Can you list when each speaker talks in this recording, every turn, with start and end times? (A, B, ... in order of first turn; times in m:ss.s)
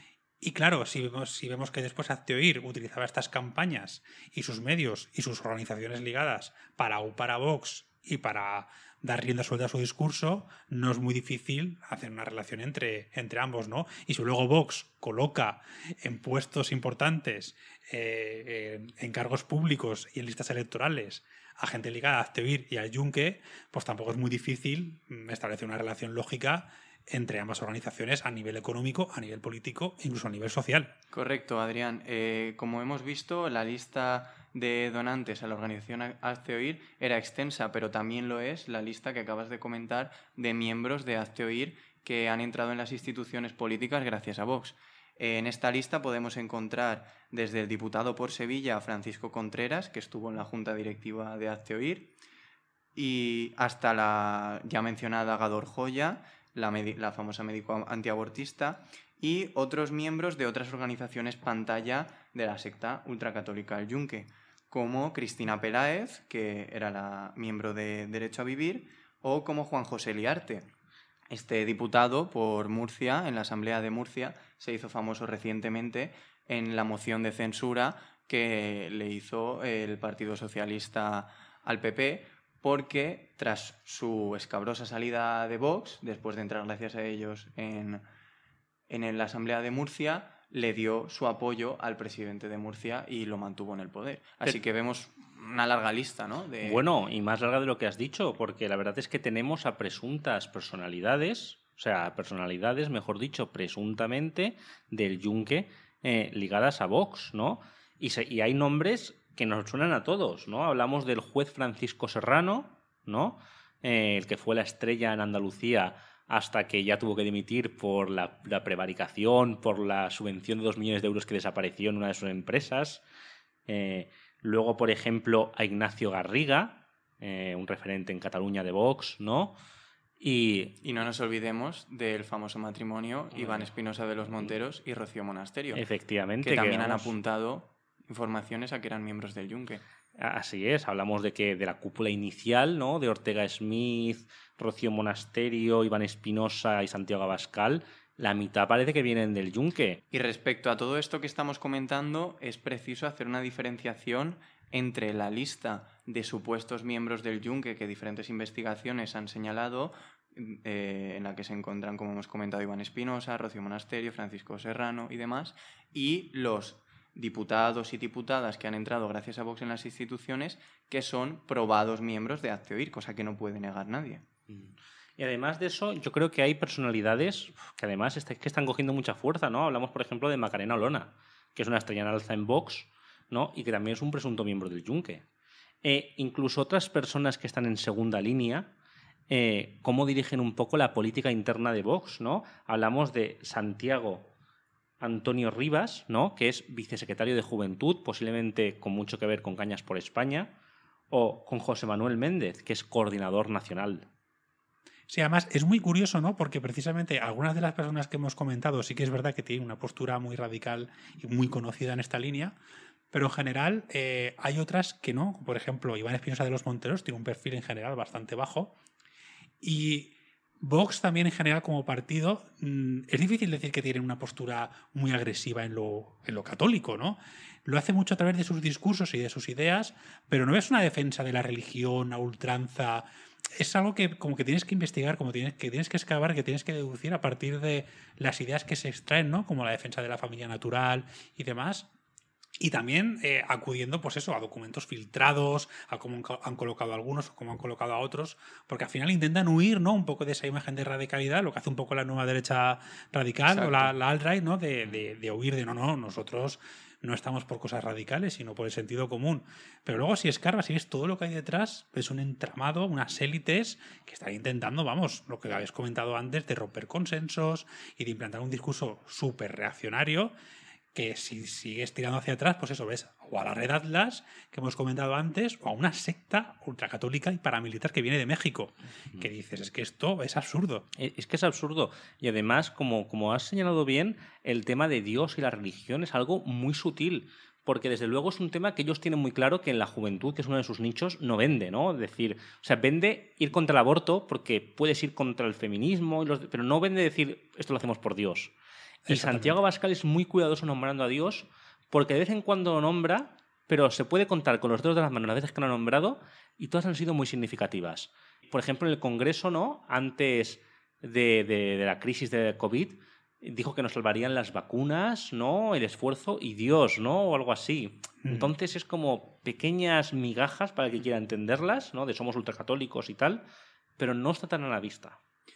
0:00.4-0:30.9 A
0:31.1-0:52.1 B
0:52.9-1:10.7 B
1:11.3-1:28.0 B
1:28.9-1:36.8 B
1:36.6-2:03.0 C
2:03.7-2:09.6 C
2:10.2-2:10.8 C
2:10.8-2:15.8 B
2:13.3-2:13.7 C
2:14.2-2:14.5 C
2:15.7-2:17.1 C
2:16.4-2:19.8 B
2:20.2-2:30.0 C
2:30.1-2:54.2 B
2:54.5-3:05.2 C
3:05.8-3:08.7 C
3:09.3-3:14.3 C
3:15.0-3:20.5 C
3:21.1-3:24.1 C
3:25.1-3:32.6 A
3:33.1-3:38.7 A
3:39.6-4:01.9 A
4:02.6-4:30.3 A
4:13.5-4:13.9 B
4:30.9-4:40.8 A
4:41.0-4:58.5 C
4:59.1-4:59.6 A
4:59.1-5:23.4 C
5:18.2-5:18.5 A
5:24.0-5:25.2 C